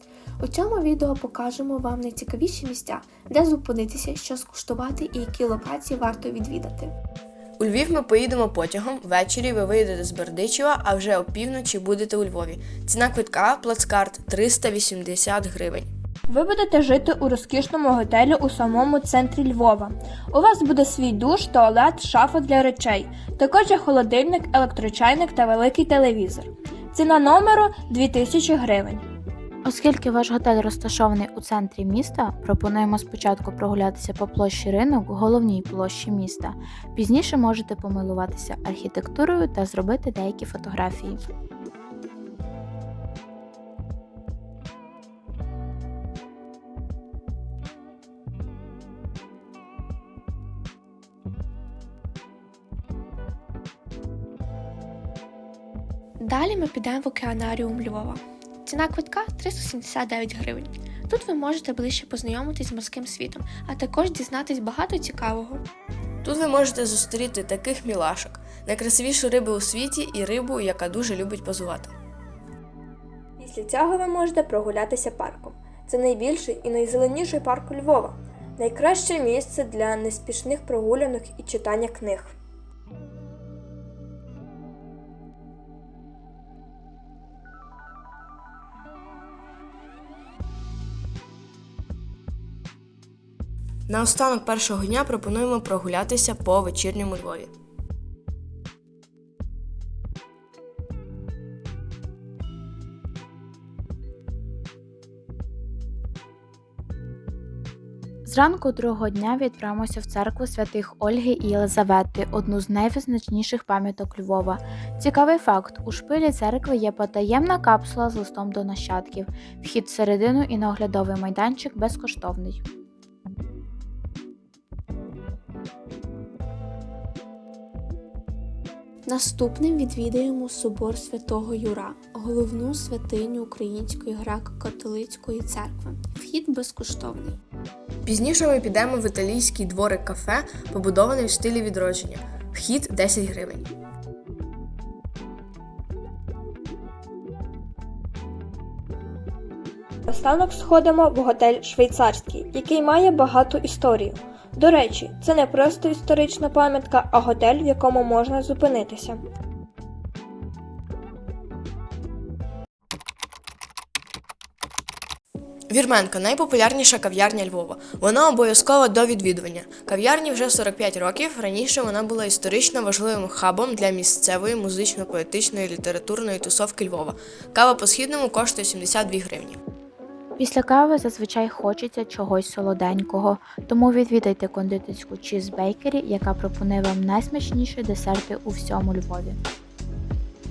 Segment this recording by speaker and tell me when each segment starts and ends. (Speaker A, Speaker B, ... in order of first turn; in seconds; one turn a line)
Speaker A: 0.4-6.9
Speaker B: 7.6-15.9
Speaker C: 16.3-29.1
Speaker D: 29.6-41.2
Speaker A: 56.2-65.6
Speaker B: 66.2-71.9
Speaker C: 73.4-82.4
Speaker B: 93.9-97.5
Speaker D: 108.2-122.6
Speaker A: 129.1-137.4
Speaker B: 138.1-143.7
Speaker C: 150.1-159.2
Speaker B: 165.7-179.6
Speaker D: 180.4-189.4